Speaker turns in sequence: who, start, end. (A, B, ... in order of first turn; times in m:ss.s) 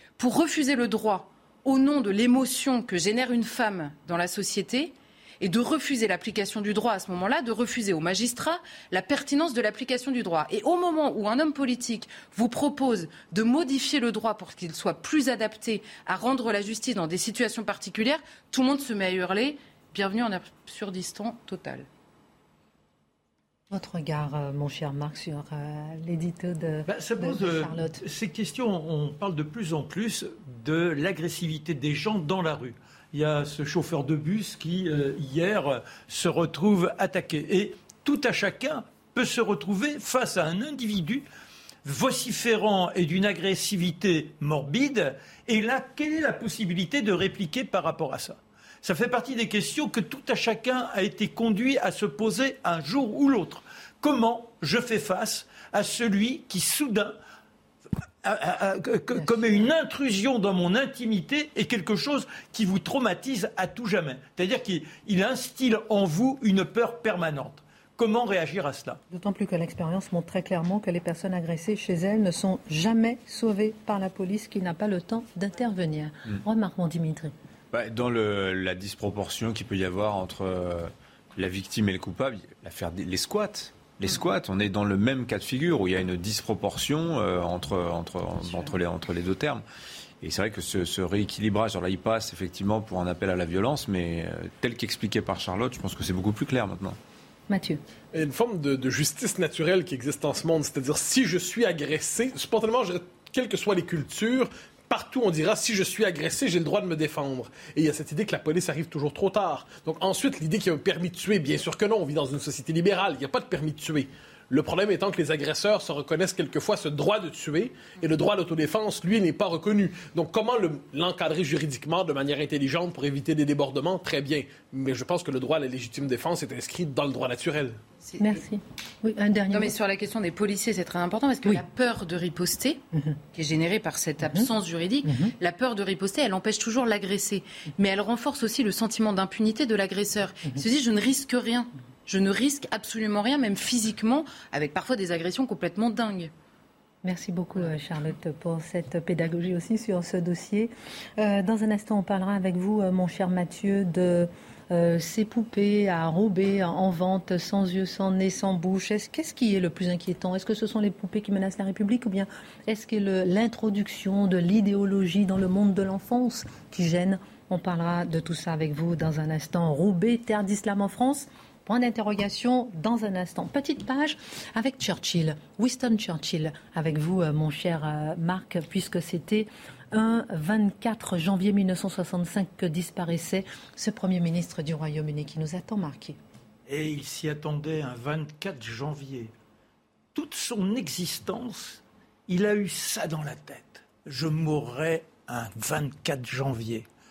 0:00.2-0:21.9 A
0:23.7-0:28.0 B
0:26.9-0:41.2 C
0:41.8-0:57.2 C
0:58.2-1:09.0 C
1:09.1-1:17.3 B
1:17.7-1:29.6 D
1:30.2-1:37.0 D
1:37.5-1:37.8 B
1:38.1-2:07.8 E
2:08.0-2:08.4 A
2:08.2-2:09.7 B
2:09.5-2:12.8 A
2:13.3-2:26.3 A
2:15.0-2:15.3 B
2:27.0-3:06.2 B
3:06.7-3:09.3 C
3:10.1-3:16.8 C